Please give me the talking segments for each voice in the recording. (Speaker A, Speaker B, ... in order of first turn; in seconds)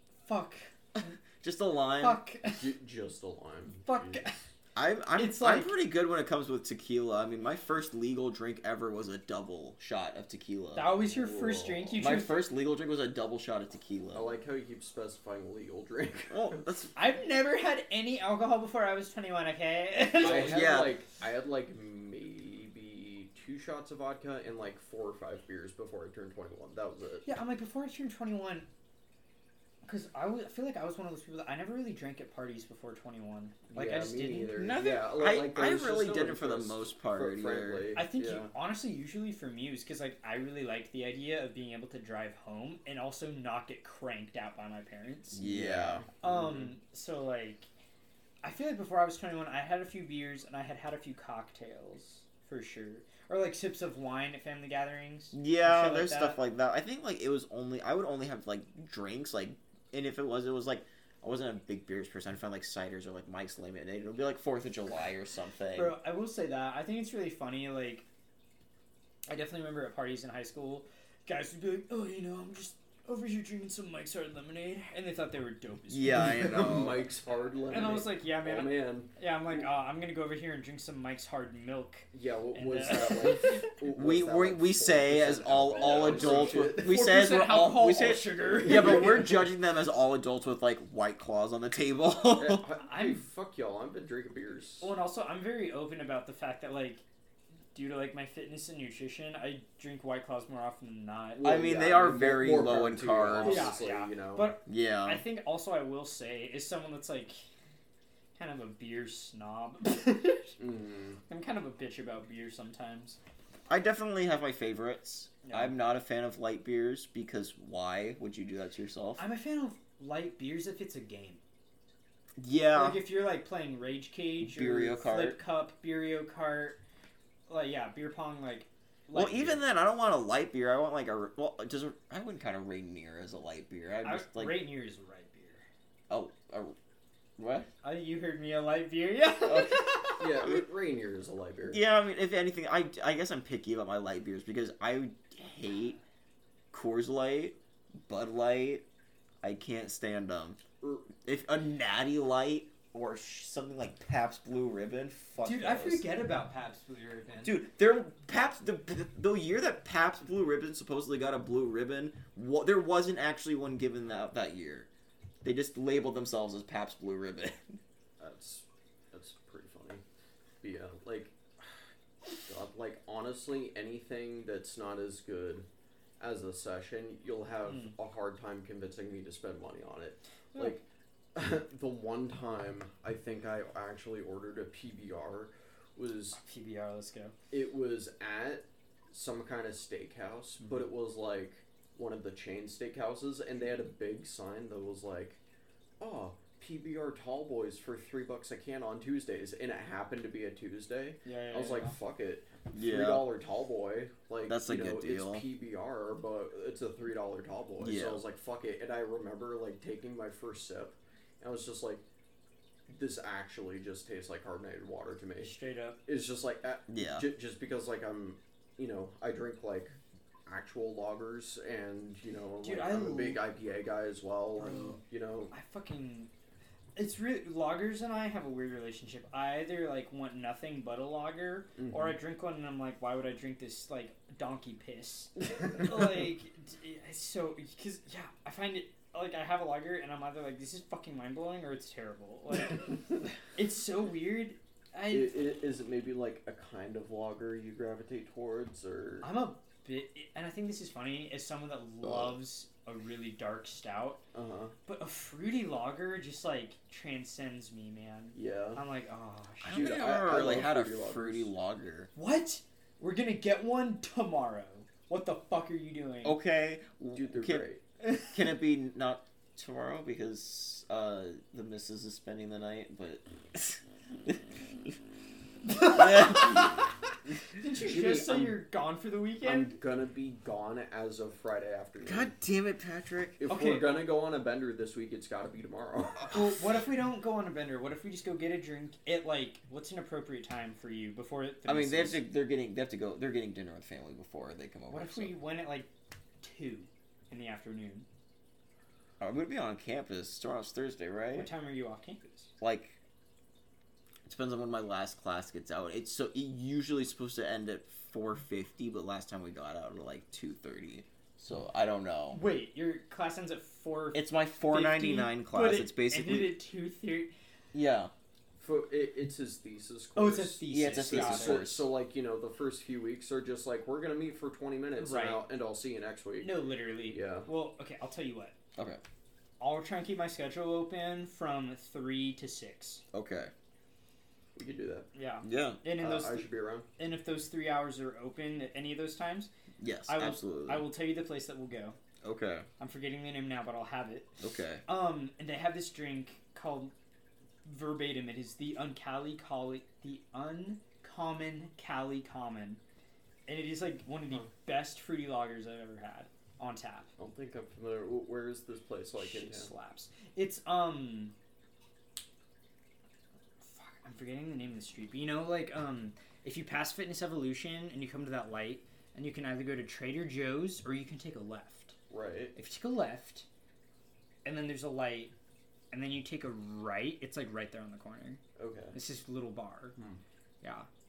Speaker A: 0.2-0.7, 2.0-2.7, 3.8-4.4, 5.1-5.7, 10.7-12.4, 16.9-20.6, 27.2-28.7, 29.8-34.5, 37.9-45.4, 46.2-47.7, 48.4-56.4, 65.7-68.0, 69.3-76.6, 77.7-83.7, 85.8-89.4, 92.8-93.2, 94.8-97.0, 97.7-101.4, 103.4-107.5, 108.3-110.6, 111.3-113.2, 115.4-115.7, 119.2-121.4, 122.7-126.8, 127.5-129.6, 134.0-135.7, 137.8-140.4, 155.4-157.6, 177.7-177.9, 180.5-180.8, 186.4-187.3, 201.2-201.9, 215.4-216.0, 222.6-223.4, 224.6-225.0, 225.5-226.3, 226.9-245.3, 249.2-254.2, 254.8-260.1, 262.1-266.4, 275.6-276.9, 277.5-279.7, 283.4-284.1, 286.3-292.2, 294.9-295.9, 296.4-298.1, 301.3-302.5, 312.3-317.3, 320.1-321.6, 325.0-325.4, 326.4-328.5, 329.6-333.0, 335.1-339.5, 340.1-341.9, 342.8-346.9, 347.6-352.8, 353.4-357.1, 359.2-361.3, 363.6-371.9, 372.5-373.4, 374.4-375.3, 375.9-378.4, 378.9-379.9, 380.6-380.9
Speaker B: 0.9-2.2, 4.7-10.9, 12.0-14.3, 16.3-16.9, 20.2-21.0, 34.5-37.9, 45.3-46.0, 55.3-65.9, 75.9-77.0, 83.8-92.6, 101.4-103.8, 104.7-105.2, 113.7-119.2, 122.4-123.0, 124.4-125.4, 129.1-134.7, 136.1-136.7, 137.4-137.7, 139.4-140.6, 141.7-146.0, 146.7-148.8, 149.4-150.6, 151.1-156.0, 157.4-164.9, 165.4-167.8, 202.7-203.3, 204.4-205.4, 207.8-208.2, 216.9-217.3, 259.6-262.1, 266.2-267.7, 268.2-274.9, 275.8-276.9, 282.0-283.4, 291.6-295.3, 299.2-301.5, 302.6-303.0, 304.2-312.4, 314.1-316.6, 317.7-318.1, 320.7-321.9, 333.1-333.5, 335.4-335.8, 339.8-340.8, 342.2-342.7, 344.4-344.8
Speaker C: 2.6-4.2, 11.0-12.1, 14.1-16.6, 20.1-27.3, 33.7-38.5, 45.4-46.7, 76.1-79.6, 82.1-87.0, 88.5-89.4, 92.3-94.9, 101.3-104.5, 110.6-111.2, 140.2-141.8, 150.8-151.1, 168.2-170.0, 170.6-171.4, 172.4-175.7, 176.2-186.4, 187.5-195.4, 196.0-212.0, 212.9-219.9, 220.4-225.5, 231.8-232.1, 245.1-249.3, 254.3-254.7, 258.3-258.8, 259.7-261.5, 267.1-267.8, 277.8-278.5, 279.4-282.3, 283.4-286.4, 318.6-326.5, 327.1-327.5, 334.5-335.1, 336.0-336.9, 357.2-359.7, 372.1-372.6, 378.6-378.9, 380.0-380.2